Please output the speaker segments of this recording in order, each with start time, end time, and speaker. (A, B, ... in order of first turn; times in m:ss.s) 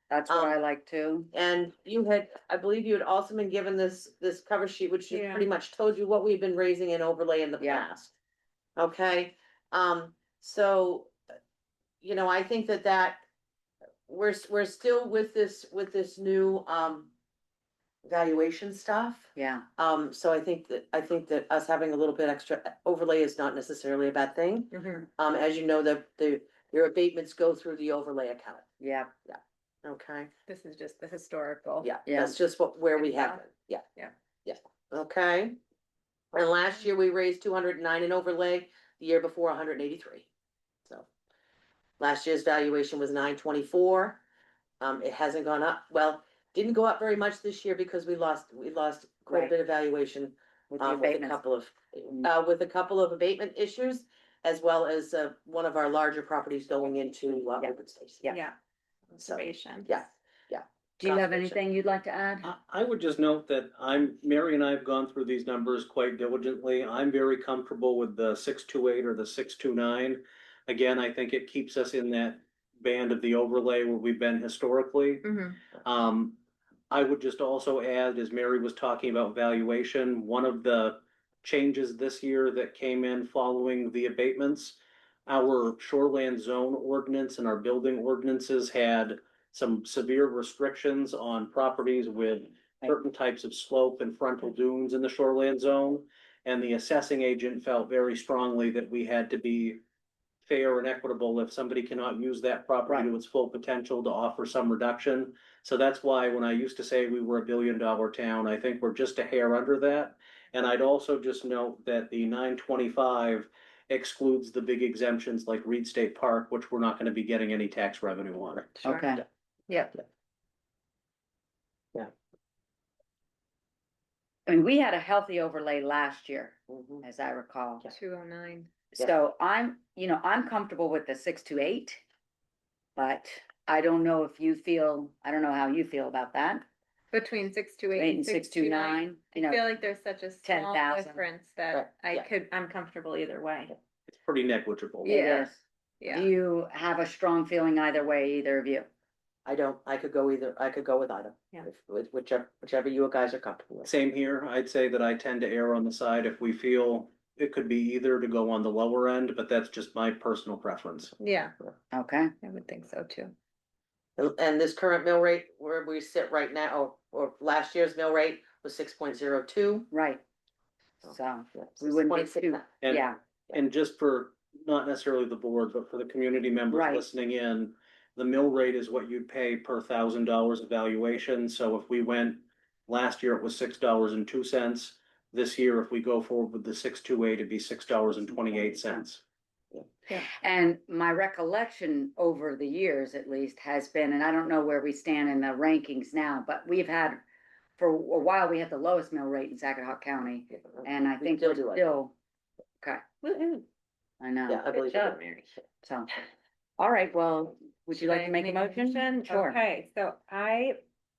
0:00.1-0:01.3 A
0:00.3-0:00.6 B
0:01.3-0:08.1 B
0:05.1-0:05.5 C
0:07.6-0:07.9 A
0:08.8-0:11.1 B
0:12.0-0:13.2 B
0:14.1-0:17.1 B
0:18.0-0:28.6 B
0:19.4-0:19.7 A
0:24.7-0:25.0 C
0:28.8-0:29.1 A
0:29.3-0:30.3 B
0:30.5-0:31.9 C
0:31.8-0:33.8 B
0:32.1-0:32.4 A
0:33.0-0:33.4 C
0:34.4-0:35.6 B
0:36.3-0:40.3 B
0:42.0-0:44.2 B
0:44.8-0:58.3 B
0:50.7-0:51.4 A
0:58.3-0:58.6 C
0:59.1-0:59.9 C
0:59.2-1:01.6 B
1:01.0-1:02.5 A
1:02.4-1:15.3 D
1:15.2-1:15.6 C
1:15.8-1:16.4 D
1:16.9-1:39.8 D
1:40.4-1:58.8 D
1:58.8-1:59.2 A
1:58.8-1:59.1 C
1:59.7-2:00.0 C
2:04.5-2:07.9 A
2:06.7-2:07.0 B
2:07.9-2:08.7 C
2:08.9-2:12.0 A
2:13.0-2:16.6 A
2:17.1-2:23.8 C
2:18.0-2:19.7 A
2:20.4-2:21.2 A
2:21.7-2:22.3 B
2:24.1-2:25.2 D
2:25.0-2:28.9 A
2:25.0-2:25.5 C
2:26.0-2:26.3 C
2:29.5-2:33.9 B
2:33.9-2:41.1 D
2:41.2-2:41.5 C
2:41.9-2:42.3 A
2:42.4-2:43.3 C
2:44.2-2:49.9 B
2:49.9-2:50.2 A
2:51.0-2:53.2 A
2:51.6-2:52.7 B
2:52.8-3:09.2 D
2:56.7-2:57.1 A
3:08.5-3:09.0 A
3:10.1-3:17.2 A
3:17.8-3:22.1 A
3:21.2-3:21.9 B
3:23.2-3:23.7 C
3:24.2-3:25.2 A
3:24.5-3:25.2 B
3:24.7-3:25.5 C
3:25.8-3:26.1 A
3:26.8-3:29.6 A
3:27.9-3:30.8 C